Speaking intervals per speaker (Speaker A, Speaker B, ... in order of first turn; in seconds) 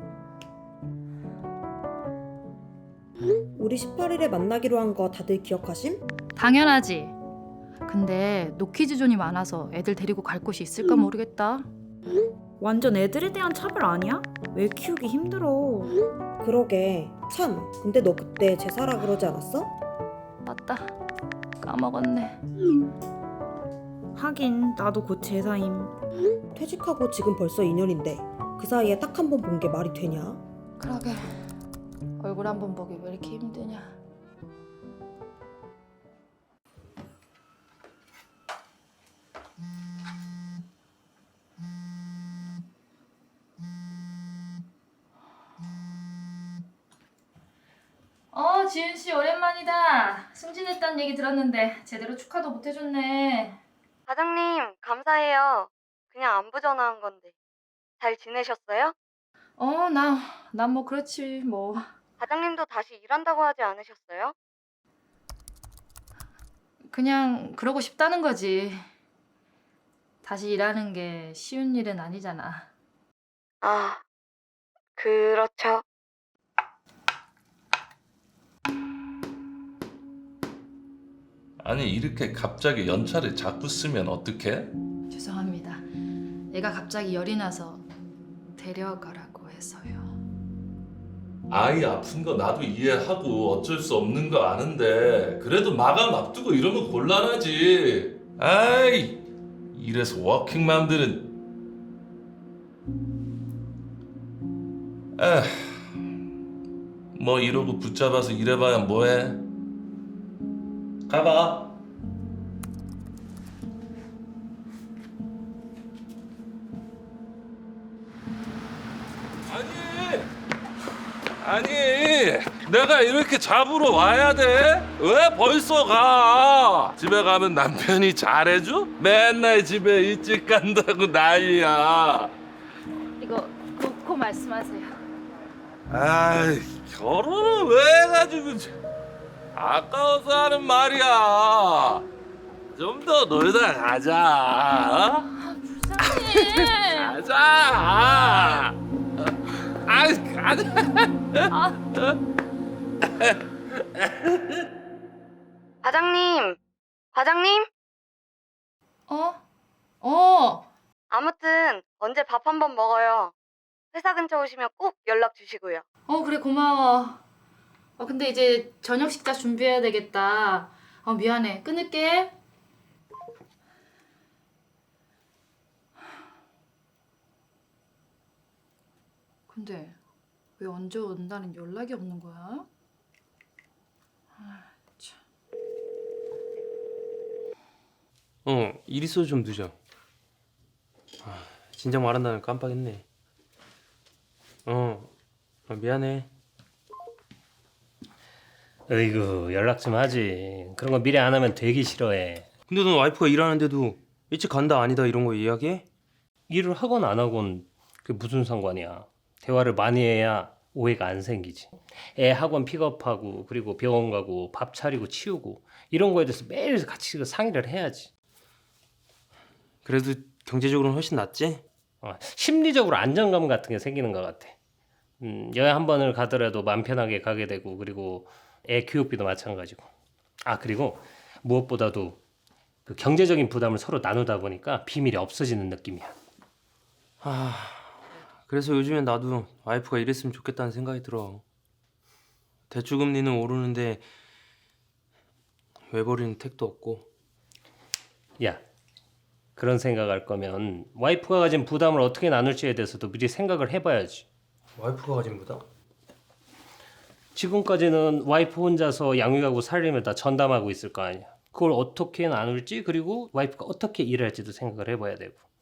Speaker A: 3.5-6.0, 16.4-19.7, 26.5-30.4
Speaker B: 6.3-7.2, 7.8-11.7, 20.4-20.9, 21.6-22.4, 30.8-31.5, 32.2-34.0, 48.3-53.6, 59.6-61.8, 66.9-68.8, 70.2-72.7, 85.1-85.9, 86.5-87.8, 88.5-90.1, 133.2-135.0, 145.3-147.2, 151.5-151.8, 159.1-159.4, 160.0-160.7, 166.1-167.2, 168.0-172.3, 179.5-180.0, 180.6-182.7, 184.3-185.2
Speaker C: 12.6-16.0, 24.1-25.9
Speaker D: 54.1-57.3, 58.0-58.9, 62.2-64.3, 73.6-74.0, 75.0-75.8, 155.8-156.6, 157.1-157.7, 161.1-163.3, 163.9-165.8
Speaker E: 81.6-84.7, 91.5-99.2, 99.7-101.3, 105.2-105.5, 107.1-109.4, 111.1-111.7, 119.5-120.3, 121.4-132.3, 135.9-138.7, 139.5-142.0, 142.7-145.2, 146.0-148.7, 149.8-151.5
Speaker F: 188.4-189.7, 191.2-193.0, 194.7-195.1, 195.7-196.3, 202.7-205.9, 219.8-221.6, 237.2-241.4, 242.7-244.0, 245.9-247.1, 254.8-255.6
Speaker G: 198.9-202.5, 206.5-218.1, 222.0-224.5, 225.2-229.9, 230.4-232.2, 232.8-236.1, 249.6-254.2, 257.3-265.4